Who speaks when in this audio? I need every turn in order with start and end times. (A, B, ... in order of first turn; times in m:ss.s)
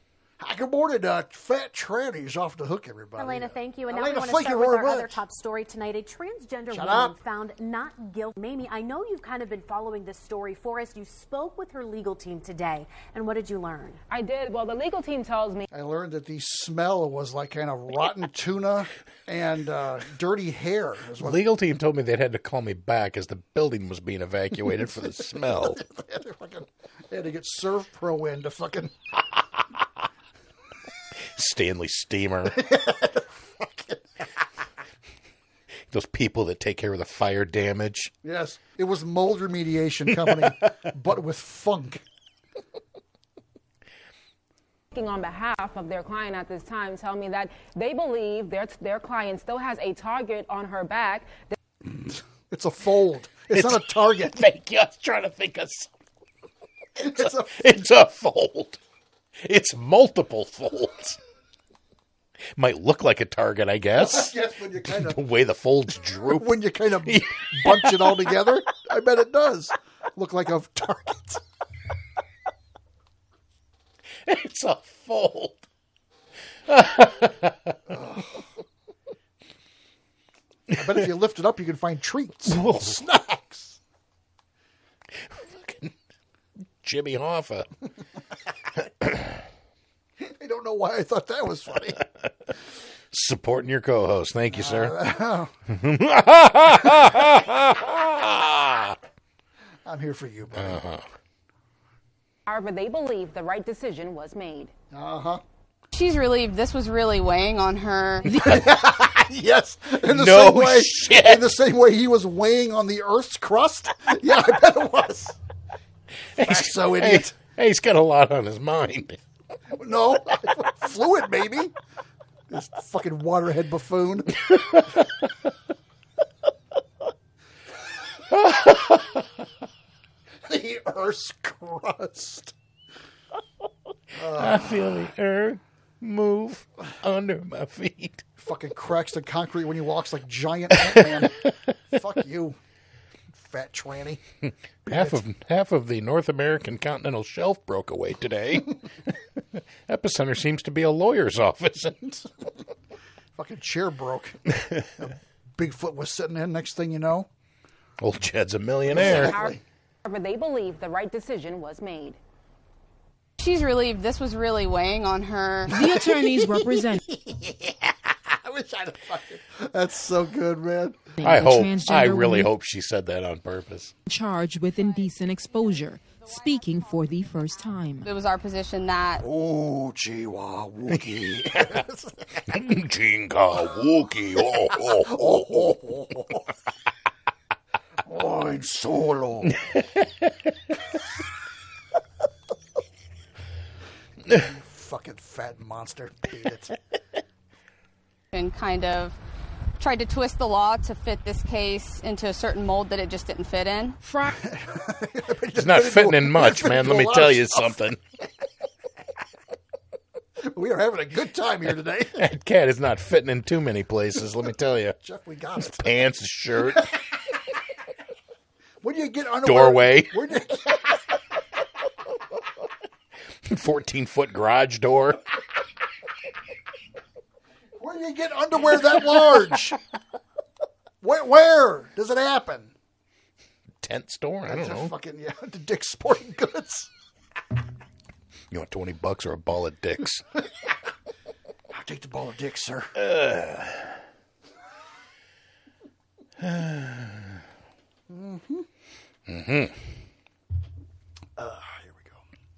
0:00.4-0:05.2 A
0:03.2-0:14.0 B
0:06.7-0:07.2 A
0:14.1-0:15.7 C
0:15.7-0:21.4 A
0:21.2-0:25.8 D
0:25.4-0:29.0 A
0:31.3-0:32.7 D
0:32.5-0:34.0 A
0:35.9-0:38.1 D
0:38.2-0:42.0 A
0:40.2-0:40.5 D
0:44.9-0:51.5 C
0:51.8-0:54.4 A
0:53.5-0:55.9 D
0:57.0-0:57.8 A
0:57.0-0:58.8 D
0:59.4-1:01.2 D
1:02.6-1:08.5 D
1:04.0-1:05.2 A
1:06.4-1:11.4 A
1:14.2-1:15.6 D
1:16.7-1:17.7 D
1:17.9-1:18.5 A
1:20.7-1:23.8 A
1:22.4-1:23.0 D
1:25.2-1:25.9 D
1:26.8-1:27.7 D
1:29.0-1:29.3 D
1:30.2-1:32.1 A
1:33.1-1:35.0 D
1:34.5-1:35.5 A
1:35.7-1:39.0 D
1:39.8-1:40.8 A
1:40.6-1:41.1 D
1:42.5-1:44.7 C
1:44.9-1:45.4 A
1:45.9-1:48.2 E
1:48.3-1:48.6 F
1:48.4-1:55.4 A
1:50.0-1:51.5 D
1:56.4-1:59.2 D
1:56.4-1:57.4 A
1:59.7-2:01.7 A
2:02.5-2:04.6 A
2:04.5-2:05.0 D
2:08.3-2:09.2 D
2:10.5-2:12.5 A
2:14.1-2:15.0 A
2:14.2-2:18.2 D
2:18.4-2:22.6 A
2:20.8-2:21.5 D
2:23.3-2:24.2 A
2:24.8-2:25.2 A
2:24.9-2:28.7 D
2:29.9-2:32.1 D
2:33.4-2:37.3 A
2:38.0-2:39.4 D
2:38.9-2:39.6 A
2:39.0-2:42.2 C
2:43.4-2:45.7 E
2:45.7-2:47.0 F
2:45.8-2:46.2 A
2:47.1-2:51.0 A
2:51.2-2:52.5 F
2:51.2-2:53.9 D
2:54.1-2:58.1 F
2:58.0-2:59.2 E
2:59.2-3:02.4 A
3:01.4-3:01.8 D
3:02.5-3:05.8 D
3:04.6-3:06.5 A
3:08.1-3:09.6 A
3:09.6-3:10.3 D
3:14.3-3:16.8 A
3:18.3-3:19.2 E
3:19.8-3:24.0 E
3:24.0-3:24.4 F
3:24.4-3:27.8 A
3:25.6-3:28.0 D
3:30.4-3:32.2 A
3:32.2-3:35.0 D
3:35.0-3:35.9 A
3:35.6-3:36.9 D
3:38.8-3:41.0 A
3:39.4-3:40.2 D
3:43.4-3:45.2 D
3:47.8-3:49.8 A
3:51.0-3:52.7 A
3:53.8-3:54.9 D
3:54.4-3:56.9 A
3:58.5-4:00.2 D
4:01.7-4:03.0 A
4:03.0-4:04.0 D
4:06.4-4:07.4 D
4:08.1-4:08.7 A
4:09.3-4:09.9 D
4:11.4-4:12.2 A